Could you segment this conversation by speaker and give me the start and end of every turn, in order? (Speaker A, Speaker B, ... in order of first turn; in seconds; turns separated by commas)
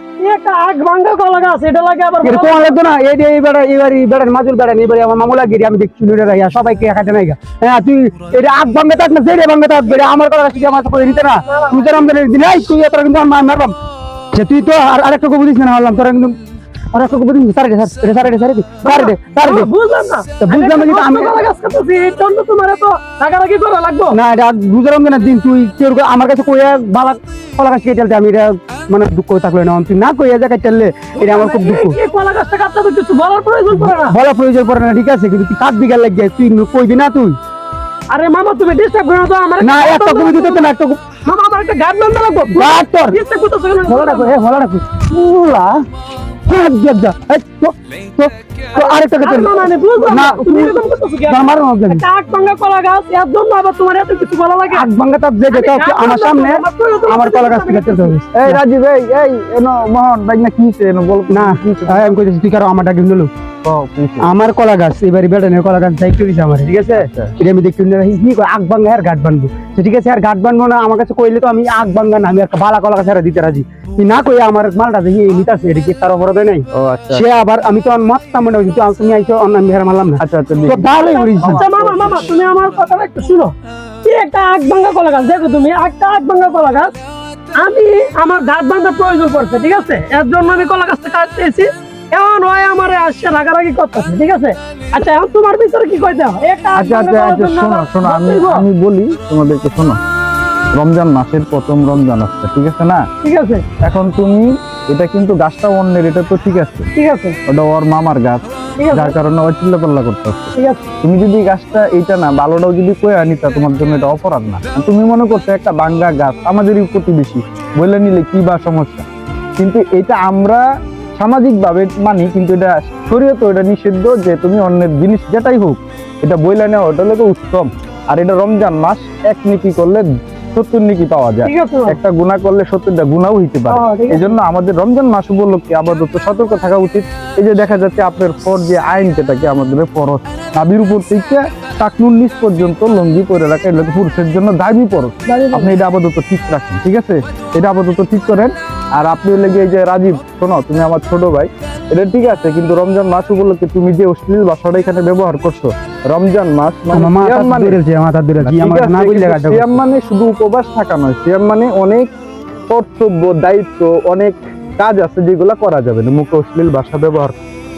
Speaker A: 0.2-2.8, Speaker B: 2.2-13.7, Speaker A: 11.5-12.1, Speaker B: 14.3-16.4, Speaker B: 16.9-19.7, Speaker A: 18.8-24.1, Speaker B: 20.4-21.4, Speaker B: 24.1-32.0, Speaker A: 31.2-34.1, Speaker B: 33.8-37.4, Speaker A: 38.1-40.7, Speaker B: 39.6-41.0, Speaker A: 41.2-44.3, Speaker B: 42.5-43.2, Speaker B: 43.9-45.8, Speaker B: 46.5-50.8, Speaker A: 48.7-54.9, Speaker B: 51.3-52.0, Speaker B: 54.7-58.6, Speaker A: 55.5-58.1, Speaker C: 58.4-62.1, Speaker B: 61.3-63.3, Speaker C: 63.6-64.3, Speaker B: 64.2-81.6, Speaker C: 66.9-67.3, Speaker C: 76.7-77.2, Speaker C: 80.2-82.3, Speaker A: 81.1-86.9, Speaker A: 87.5-98.7, Speaker C: 96.7-100.0, Speaker C: 100.7-103.0, Speaker A: 103.2-103.6, Speaker C: 103.8-106.9, Speaker A: 106.9-107.4, Speaker C: 107.5-119.0, Speaker A: 108.8-109.1, Speaker A: 110.5-110.8, Speaker C: 119.6-120.6, Speaker C: 121.2-157.8, Speaker A: 131.4-132.0, Speaker A: 133.7-134.4, Speaker A: 145.3-145.7, Speaker B: 156.9-159.8, Speaker C: 158.4-162.1, Speaker C: 162.7-167.4